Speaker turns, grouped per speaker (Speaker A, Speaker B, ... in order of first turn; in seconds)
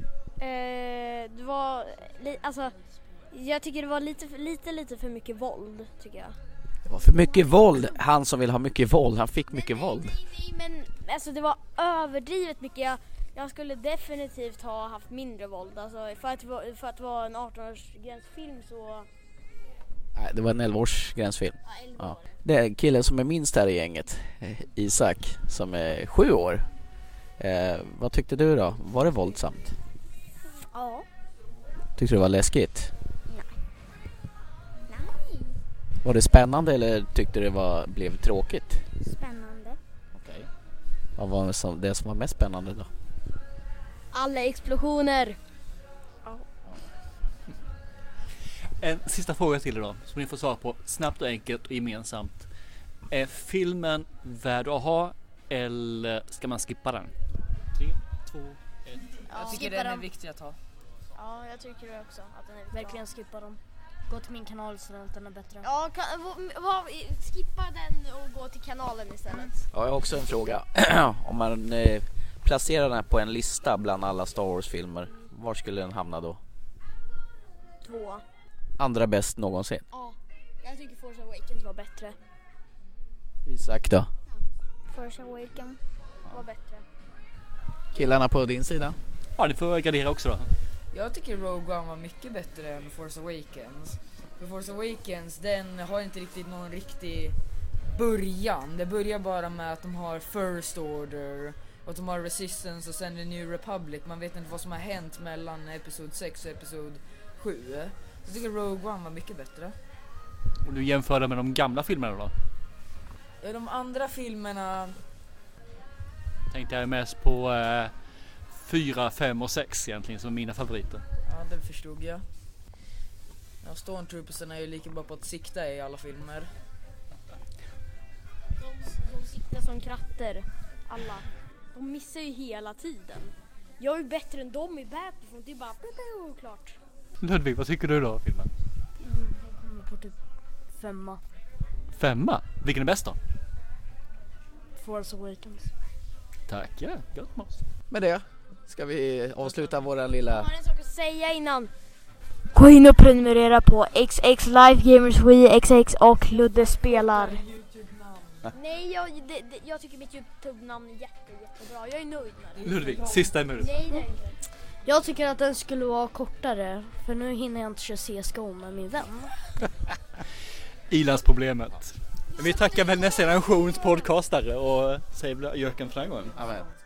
Speaker A: 0.4-2.7, 3.3-6.3, 9.5-19.1, 21.7-22.3, 44.1-45.4, 59.3-60.0, 61.1-63.0, 65.6-69.6, 77.8-78.2, 79.9-82.2, 86.3-86.8, 128.6-136.8, 150.3-151.7, 158.5-162.9, 163.5-164.3, 172.4-174.0
Speaker B: 6.9-10.1, 20.1-26.6, 27.4-29.7, 32.0-32.9, 36.0-38.8, 40.2-40.5, 41.2-42.9, 69.7-76.4, 78.8-79.8, 83.5-84.1, 87.9-89.0, 147.9-150.5, 176.3-176.6
Speaker C: 30.7-31.0, 34.9-35.5, 39.0-39.8, 84.9-85.8
Speaker D: 48.8-52.5, 53.1-57.1, 57.8-59.1, 89.4-90.5, 110.6-112.3, 116.5-117.9, 118.6-121.0, 137.2-138.5, 141.9-143.2, 146.5-147.6, 162.6-163.7, 170.9-176.4
Speaker E: 59.3-60.5, 90.9-97.3, 97.9-109.7, 113.4-115.0, 121.3-122.2, 123.6-126.5
Speaker F: 62.7-65.7, 139.0-140.1, 140.8-141.2, 144.8-145.7, 152.5-157.4, 164.8-169.3